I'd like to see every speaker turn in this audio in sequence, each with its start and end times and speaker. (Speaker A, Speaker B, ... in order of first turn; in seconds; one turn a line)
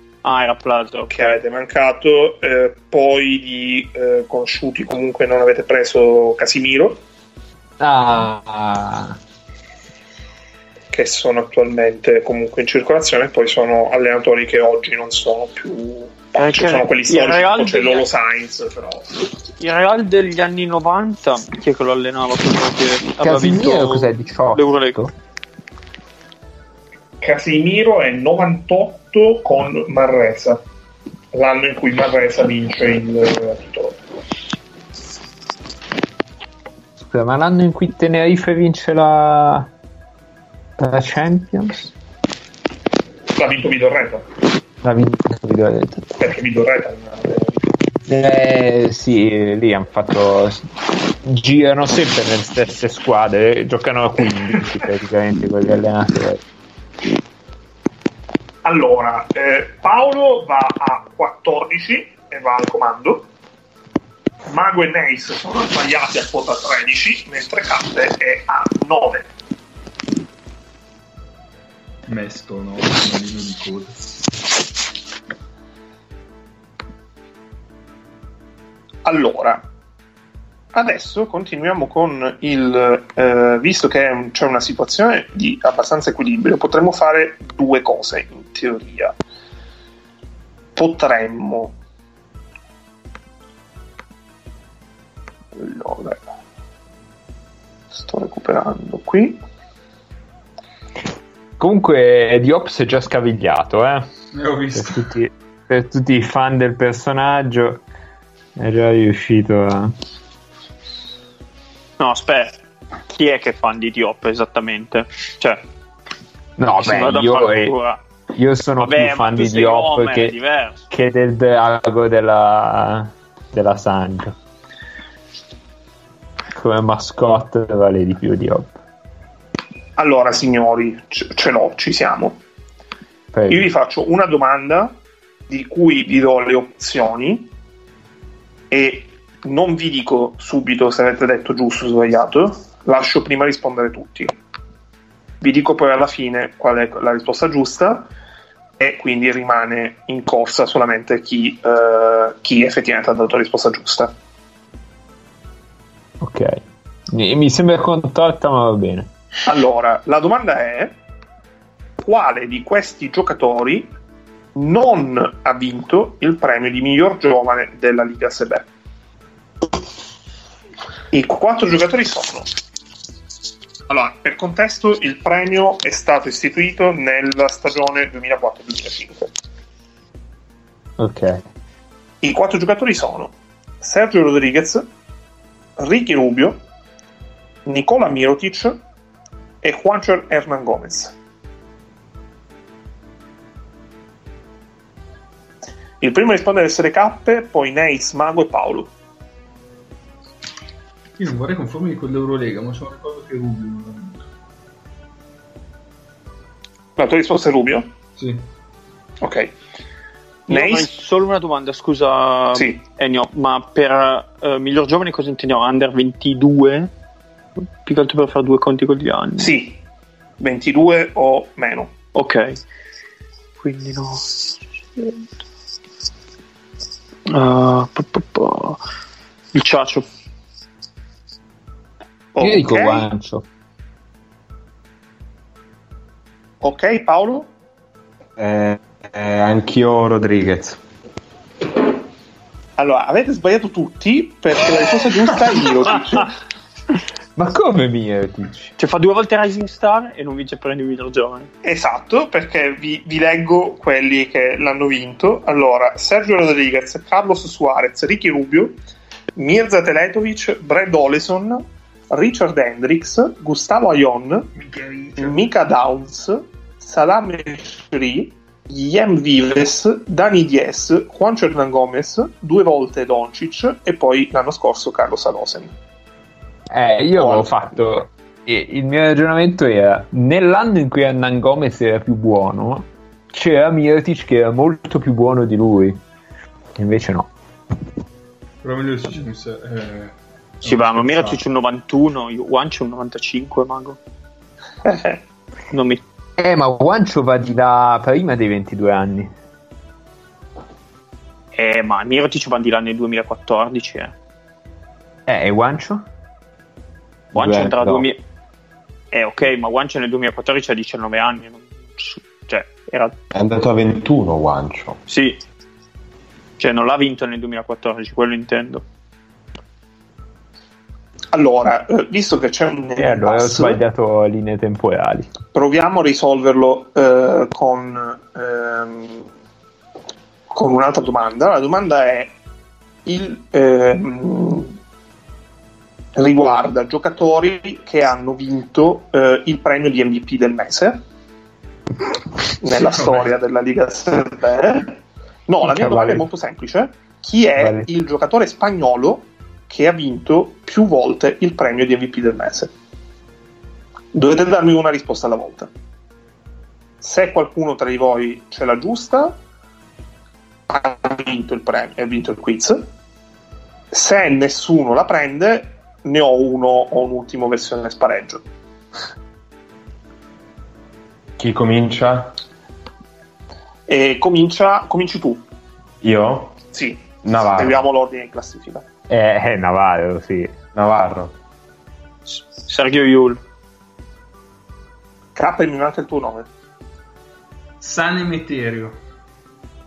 Speaker A: 0.2-1.4
Speaker B: 1.1-7.0
Speaker C: 7.8-9.2
Speaker B: 10.9-19.1
Speaker A: 16.4-18.1
Speaker A: 19.6-25.0
Speaker C: 23.2-25.1
Speaker B: 27.2-30.6
Speaker B: 31.3-34.0
Speaker C: 37.0-39.7
Speaker C: 40.8-41.9
Speaker B: 43.4-44.3
Speaker C: 44.8-46.1
Speaker B: 46.2-47.6
Speaker C: 48.1-50.7
Speaker C: 51.2-56.4
Speaker B: 58.6-63.3
Speaker B: 64.5-69.3
Speaker D: 72.1-74.0
Speaker B: 79.0-79.7
Speaker B: 80.7-89.2
Speaker B: 90.8-91.8
Speaker B: 95.6-96.3
Speaker B: 97.9-99.4
Speaker C: 101.6-104.1
Speaker D: 104.3-105.1
Speaker C: 104.7-107.8
Speaker C: 108.6-110.0
Speaker A: 112.0-115.6
Speaker C: 116.6-117.8
Speaker A: 116.8-118.0
Speaker C: 118.3-120.3
Speaker A: 118.8-120.8
Speaker C: 120.9-124.3
Speaker C: 126.5-128.7
Speaker B: 130.0-132.4
Speaker C: 133.3-133.7
Speaker B: 133.5-135.0
Speaker B: 135.5-137.5
Speaker B: 138.7-144.3
Speaker B: 145.4-148.1
Speaker B: 148.8-154.1
Speaker C: 156.2-159.1
Speaker B: 159.4-161.0
Speaker B: 162.0-163.9
Speaker B: 164.6-168.7
Speaker B: 171.1-172.5
Speaker B: 173.9-179.3
Speaker C: 181.0-181.4
Speaker B: 182.2-184.9
Speaker B: 185.8-186.6
Speaker B: 187.7-188.8
Speaker B: 189.6-191.2
Speaker B: 196.0-198.9
Speaker D: 201.2-204.2
Speaker B: 207.0-207.9
Speaker D: 208.2-208.5
Speaker B: 209.2-209.5
Speaker A: 210.5-216.9
Speaker B: 210.5-210.9
Speaker A: 217.6-219.6
Speaker B: 219.4-219.8
Speaker B: 220.4-221.9
Speaker A: 222.2-222.6
Speaker A: 223.6-225.2
Speaker A: 227.3-228.8
Speaker A: 229.5-230.1
Speaker B: 232.3-233.1
Speaker C: 232.4-233.5
Speaker B: 236.6-237.5
Speaker E: 238.4-240.8
Speaker B: 242.8-246.3
Speaker C: 247.4-248.7
Speaker A: 248.8-251.5
Speaker B: 251.6-258.8
Speaker B: 259.4-275.7
Speaker C: 276.7-286.0
Speaker B: 277.2-277.8
Speaker C: 286.8-287.3
Speaker D: 288.6-291.4
Speaker A: 290.6-294.0
Speaker B: 294.9-295.2
Speaker A: 295.7-296.0
Speaker C: 296.4-299.3
Speaker A: 301.6-304.1
Speaker C: 305.3-306.0
Speaker E: 307.3-308.1
Speaker A: 307.4-308.2
Speaker A: 309.1-313.2
Speaker E: 313.3-315.0
Speaker A: 315.1-315.4
Speaker A: 316.6-318.8
Speaker B: 321.3-323.8
Speaker C: 323.0-325.3
Speaker B: 325.5-329.3
Speaker B: 330.5-332.4
Speaker B: 333.1-334.8
Speaker B: 336.2-341.0
Speaker B: 342.6-345.0
Speaker B: 345.5-352.7
Speaker C: 345.6-346.3
Speaker C: 347.6-347.9
Speaker B: 354.1-355.7
Speaker B: 357.0-359.4
Speaker B: 360.7-362.9
Speaker B: 363.9-368.4
Speaker E: 371.4-372.3
Speaker B: 373.9-375.4
Speaker E: 376.0-376.6
Speaker B: 376.7-378.8
Speaker E: 377.2-377.9
Speaker C: 379.1-380.5
Speaker E: 380.7-381.3
Speaker A: 382.3-383.4
Speaker B: 385.4-386.5
Speaker D: 387.8-389.0